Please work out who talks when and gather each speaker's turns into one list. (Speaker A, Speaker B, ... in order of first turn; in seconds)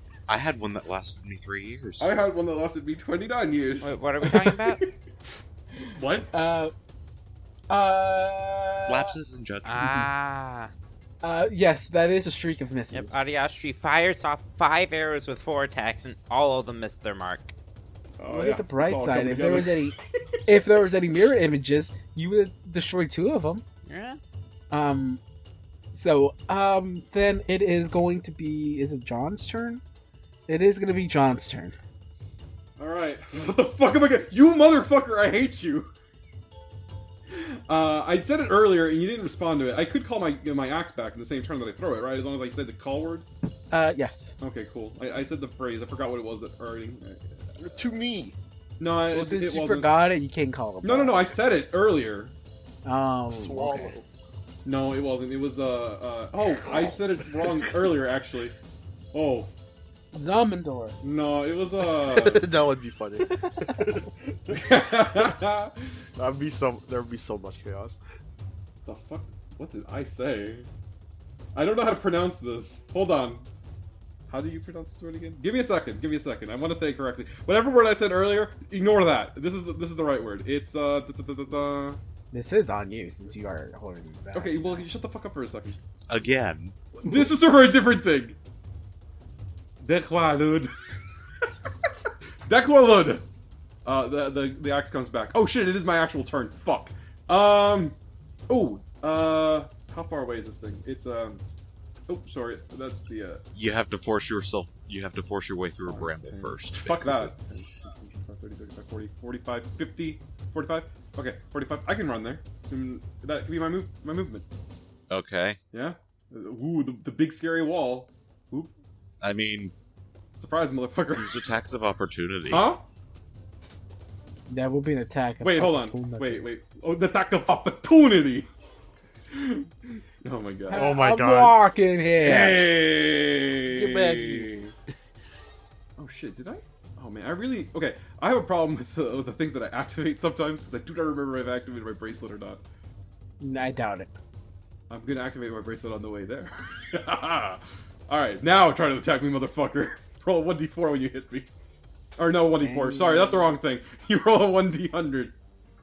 Speaker A: 0.3-2.1, 8.9-10.1, 86.1-86.8, 103.5-107.3, 115.1-115.6, 119.2-119.7, 121.1-122.7
Speaker B: 2.0-4.9, 5.9-6.3, 18.2-20.0, 32.8-35.9, 37.3-43.2, 44.4-47.9, 48.8-49.9, 50.8-52.3, 54.6-58.5, 59.1-59.5, 61.0-62.5, 64.5-65.7, 68.8-70.7, 71.5-73.5, 74.3-82.0, 84.3-85.8, 87.0-88.4, 89.8-90.7, 92.5-93.2, 93.8-98.0, 98.5-101.4, 102.1-103.4, 105.9-114.5, 115.7-118.7, 120.4-121.4, 122.5-122.8, 125.4-128.5, 129.3-130.9, 132.2-134.7, 136.0-142.6, 144.9-151.5, 152.2-155.3
Speaker C: 3.8-4.8, 9.6-10.7, 12.9-17.5, 23.8-24.2
Speaker D: 5.9-6.7, 7.7-9.2, 11.2-13.2, 18.3-23.6, 24.7-25.2, 25.9-29.8, 30.5-31.8, 43.7-44.3, 49.1-51.3, 52.8-53.9, 60.1-61.0, 63.4-63.8, 82.3-84.8, 124.5-126.5, 130.7-132.7, 143.4-144.1, 152.6-153.5
Speaker E: 47.6-48.4, 53.3-54.0, 61.8-64.6, 66.2-68.0, 130.7-131.6, 133.7-134.5